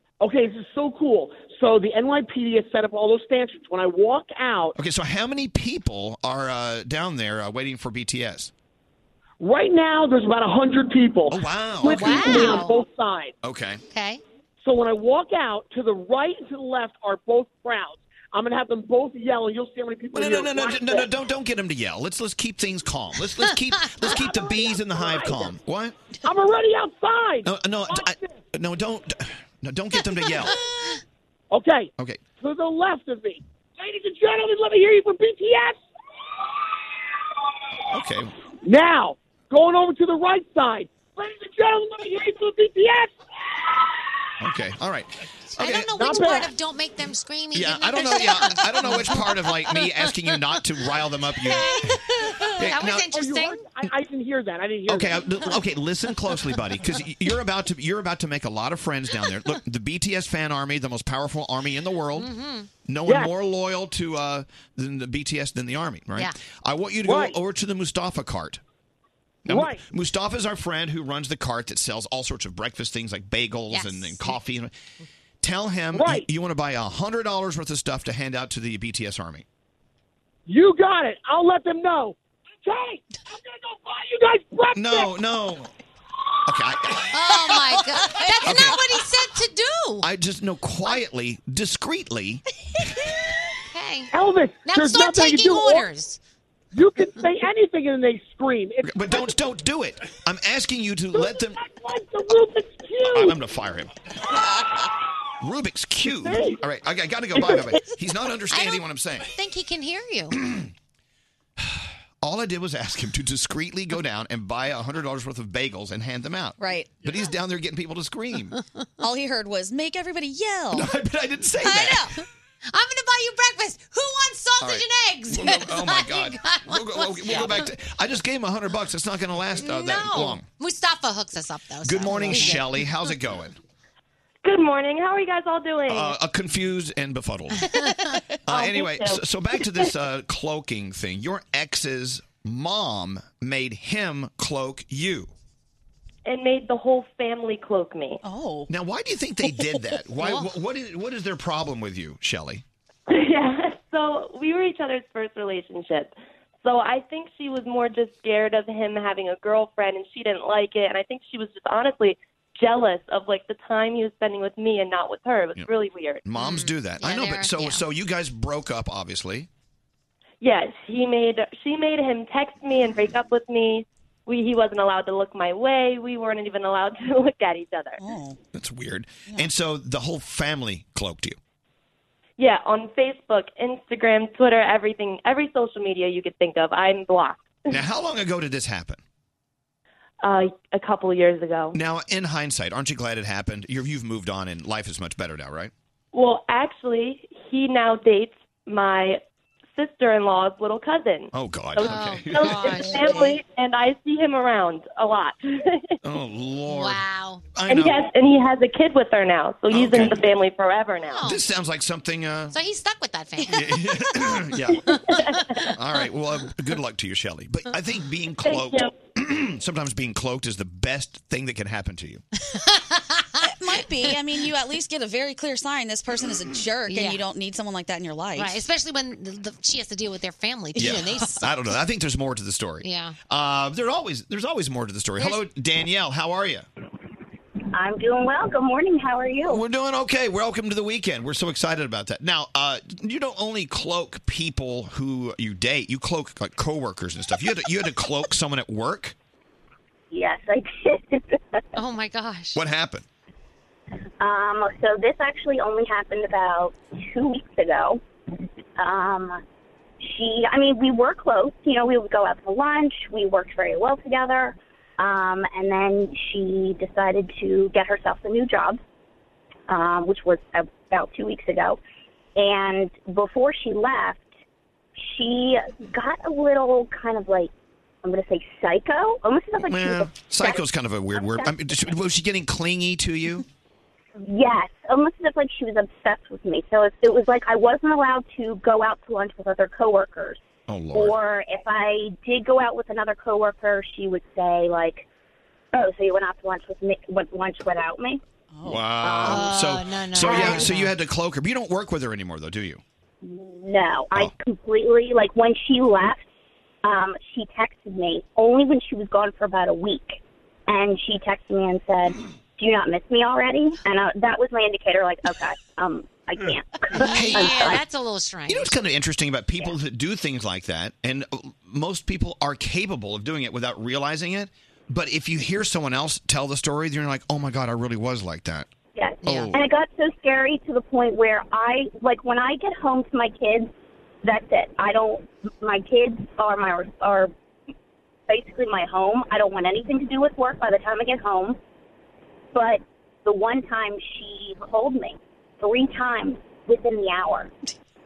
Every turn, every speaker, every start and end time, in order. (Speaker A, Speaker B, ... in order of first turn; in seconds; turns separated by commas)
Speaker A: 0.2-4.7, Speaker B: 4.8-8.5, Speaker A: 9.4-13.3, Speaker B: 11.3-12.5, Speaker C: 11.9-12.8, Speaker B: 13.4-13.8, Speaker C: 13.9-14.2, Speaker A: 14.6-21.1, Speaker B: 20.1-26.0, Speaker A: 24.1-25.5, Speaker A: 26.2-28.4, Speaker B: 27.5-30.6, Speaker A: 31.5-35.8, Speaker B: 32.0-32.2, Speaker B: 37.9-38.3, Speaker A: 38.6-43.1, Speaker A: 43.6-44.0, Speaker B: 44.4-46.1, Speaker C: 45.6-50.6, Speaker A: 46.0-46.5, Speaker B: 47.5-52.0, Speaker C: 51.4-53.7, Speaker B: 52.6-53.1, Speaker A: 52.9-55.5, Speaker B: 54.9-62.3, Speaker C: 62.2-62.7, Speaker B: 62.9-68.6, Speaker A: 67.0-67.3, Speaker B: 69.5-74.7, Speaker A: 69.5-69.8, Speaker C: 73.7-74.4, Speaker B: 75.4-79.5, Speaker A: 75.9-76.3, Speaker A: 80.5-85.1, Speaker B: 84.7-85.7, Speaker B: 86.5-87.2, Speaker C: 87.1-90.1, Speaker D: 88.0-88.7, Speaker B: 88.4-88.8, Speaker B: 90.0-92.4, Speaker C: 93.7-94.1, Speaker A: 94.1-95.9, Speaker C: 94.7-96.2, Speaker A: 96.7-99.3, Speaker B: 98.8-101.6, Speaker A: 101.1-103.4, Speaker B: 103.1-103.9, Speaker B: 105.4-109.3, Speaker A: 106.2-106.6, Speaker C: 108.5-110.4, Speaker B: 110.3-110.7, Speaker B: 111.6-118.6, Speaker D: 116.6-117.0, Speaker D: 119.0-120.9, Speaker B: 120.7-122.1, Speaker D: 121.6-122.2, Speaker C: 122.7-127.7, Speaker B: 124.6-130.4, Speaker C: 129.6-132.9, Speaker B: 131.8-133.6, Speaker E: 134.4-136.2, Speaker B: 135.9-137.6, Speaker C: 137.7-138.1, Speaker B: 138.5-145.3, Speaker E: 138.5-139.2, Speaker E: 146.2-148.2, Speaker D: 148.3-148.7, Speaker B: 148.7-152.6, Speaker E: 153.1-166.2, Speaker B: 166.2-169.5, Speaker C: 166.4-167.8, Speaker E: 170.4-178.0, Speaker D: 178.0-178.4, Speaker B: 178.5-181.4, Speaker E: 182.4-187.8, Speaker B: 187.7-189.0, Speaker E: 190.2-191.8, Speaker B: 191.7-195.7, Speaker E: 196.1-199.2, Speaker E: 199.8-206.0, Speaker B: 201.3-203.2, Speaker C: 201.8-203.4, Speaker B: 206.0-207.0, Speaker C: 206.7-207.4, Speaker B: 207.5-208.0, Speaker E: 207.7-211.2, Speaker B: 209.7-210.2, Speaker C: 211.1-211.4, Speaker B: 211.2-212.6, Speaker C: 212.5-214.0, Speaker B: 213.5-214.9, Speaker C: 214.9-215.7, Speaker B: 215.8-222.2, Speaker E: 218.4-218.9, Speaker C: 222.6-223.4, Speaker D: 223.4-228.6, Speaker C: 226.9-227.2, Speaker C: 228.4-231.5, Speaker B: 230.8-236.7, Speaker C: 232.8-233.2, Speaker F: 237.7-239.6, Speaker B: 239.5-249.2, Speaker F: 250.1-251.6, Speaker C: 251.8-252.6, Speaker B: 252.6-253.1, Speaker F: 254.2-258.0, Speaker F: 258.8-259.4, Speaker F: 260.0-268.8, Speaker F: 269.7-271.8, Speaker F: 272.4-274.4, Speaker F: 275.0-277.5, Speaker F: 278.0-281.6, Speaker B: 279.6-283.4, Speaker F: 284.2-290.4, Speaker B: 290.7-291.2, Speaker F: 290.9-295.1, Speaker F: 295.7-298.2, Speaker D: 298.6-299.1, Speaker B: 298.6-302.8, Speaker C: 299.2-300.9, Speaker F: 300.2-300.7, Speaker F: 303.2-306.2, Speaker F: 306.8-317.8, Speaker C: 317.0-318.7, Speaker B: 317.0-317.8, Speaker B: 318.5-328.7, Speaker F: 329.0-333.7, Speaker C: 329.2-329.5, Speaker B: 329.3-329.6, Speaker F: 334.2-337.3, Speaker F: 338.3-341.6, Speaker F: 342.5-347.5